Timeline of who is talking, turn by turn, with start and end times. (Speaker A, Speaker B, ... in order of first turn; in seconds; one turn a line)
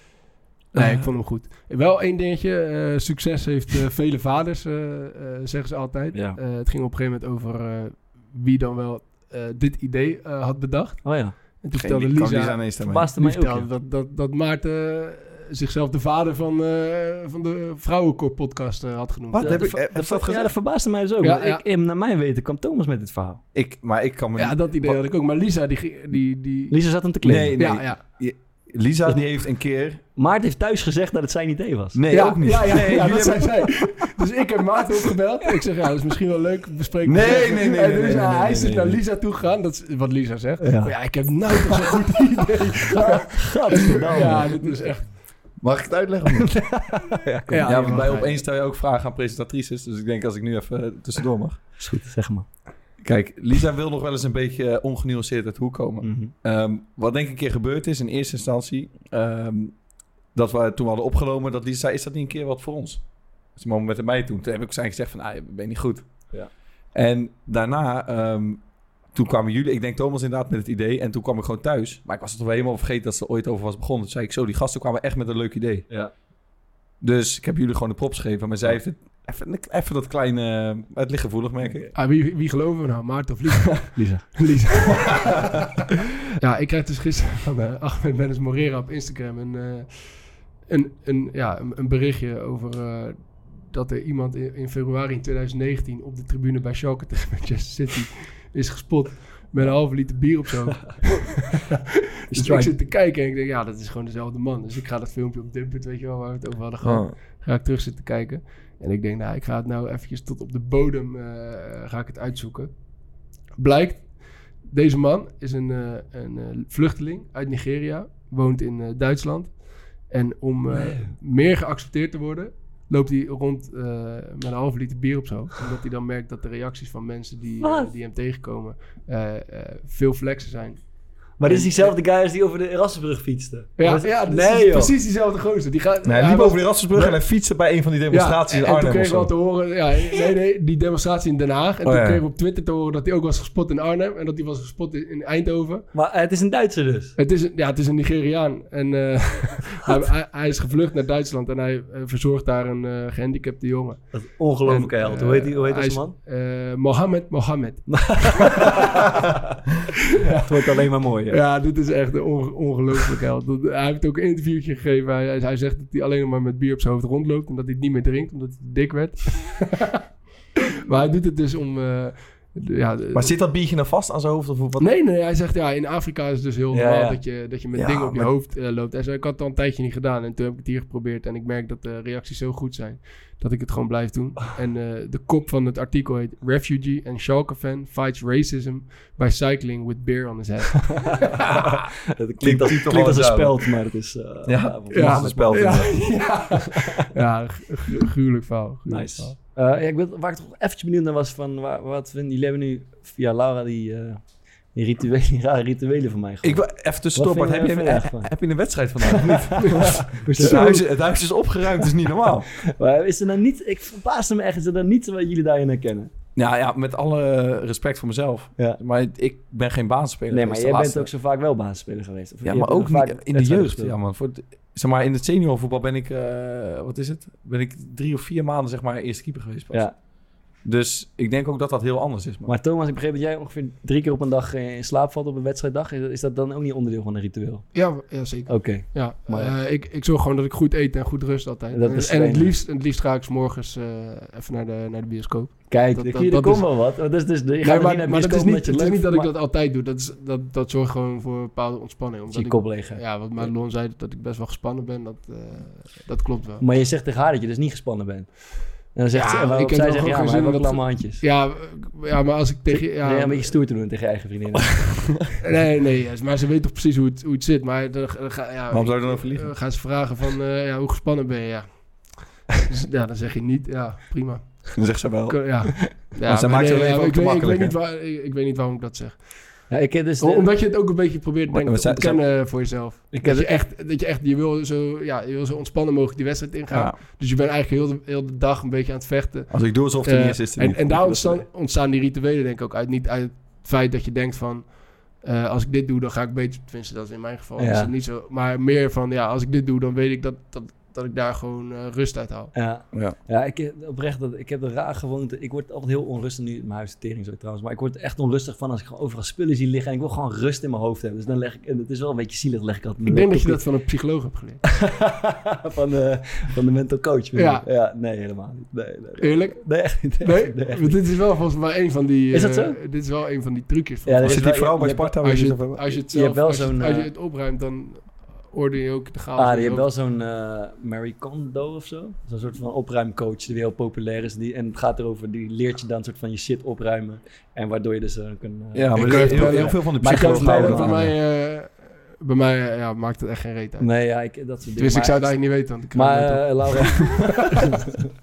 Speaker A: 0.8-1.1
Speaker B: 0.8-19.6
Speaker C: 6.1-6.4
Speaker C: 11.0-11.4
Speaker A: 11.8-13.1
Speaker C: 12.8-13.7
Speaker C: 19.4-23.4
Speaker A: 19.4-20.5
Speaker B: 21.2-21.6
Speaker A: 23.5-25.0
Speaker B: 24.4-26.8
Speaker C: 26.7-27.6
Speaker A: 27.2-30.0
Speaker B: 27.6-28.0
Speaker C: 30.1-32.0
Speaker A: 31.9-33.8
Speaker B: 32.1-45.1
Speaker A: 37.0-39.0
Speaker C: 40.6-41.0
Speaker C: 42.9-44.6
Speaker A: 45.6-46.8
Speaker C: 46.5-48.1
Speaker B: 47.5-48.4
Speaker A: 47.6-51.6
Speaker C: 51.8-52.5
Speaker A: 53.0-59.8
Speaker C: 56.0-56.3
Speaker A: 60.3-63.0
Speaker A: 63.5-66.3
Speaker A: 66.9-75.9
Speaker A: 77.0-81.9
Speaker B: 82.0-85.5
Speaker C: 84.0-84.3
Speaker B: 86.4-101.8
Speaker C: 102.3-102.8
Speaker B: 102.3-112.8
Speaker A: 106.8-107.1
Speaker B: 113.5-131.9
Speaker C: 120.7-121.1
Speaker C: 127.6-127.9
Speaker C: 131.4-134.9
Speaker B: 133.8-137.2
Speaker A: 136.0-139.3
Speaker B: 138.1-145.9
Speaker A: 141.8-142.2
Speaker C: 145.9-147.2
Speaker B: 147.2-159.0
Speaker C: 154.1-156.2
Speaker C: 157.9-158.8
Speaker B: 160.2-160.8
Speaker C: 160.4-161.4
Speaker B: 161.3-170.0
Speaker B: 170.8-173.3
Speaker A: 173.1-174.9
Speaker B: 174.8-191.6
Speaker C: 176.7-177.2
Speaker A: 177.8-178.3
Speaker C: 192.1-196.2
Speaker A: 192.4-193.7
Speaker A: 194.5-196.1
Speaker B: 194.9-199.4
Speaker C: 198.9-204.2
Speaker C: 204.7-208.3
Speaker A: 206.4-212.6
Speaker C: 209.1-210.8
Speaker B: 210.4-210.7
Speaker C: 212.7-216.1
Speaker A: 216.4-221.1
Speaker C: 220.3-223.9
Speaker A: 222.4-230.0
Speaker A: 230.6-232.5
Speaker C: 232.5-237.8
Speaker B: 237.7-246.8
Speaker C: 238.5-239.6
Speaker C: 241.7-242.5
Speaker C: 245.7-249.3
Speaker B: 247.6-256.6
Speaker C: 252.3-253.5
Speaker C: 256.6-261.2
Speaker B: 259.1-263.6
Speaker C: 262.7-265.0
Speaker B: 265.4-279.6
Speaker A: 268.7-269.6
Speaker A: 274.8-277.8
Speaker C: 279.7-280.5
Speaker B: 280.2-302.5
Speaker A: 281.5-282.3
Speaker C: 283.1-283.6
Speaker A: 289.5-291.4
Speaker C: 297.6-297.9
Speaker C: 302.5-313.6
Speaker B: 313.1-314.6
Speaker C: 314.8-321.0
Speaker B: 317.4-317.6
Speaker B: 319.2-324.5
Speaker C: 322.3-322.8
Speaker C: 324.1-325.2
Speaker A: 324.2-325.9
Speaker B: 325.2-329.9
Speaker C: 326.1-327.1
Speaker C: 329.4-341.1
Speaker A: 338.7-341.1
Speaker B: 339.0-343.9
Speaker C: 343.8-347.6
Speaker B: 344.8-347.2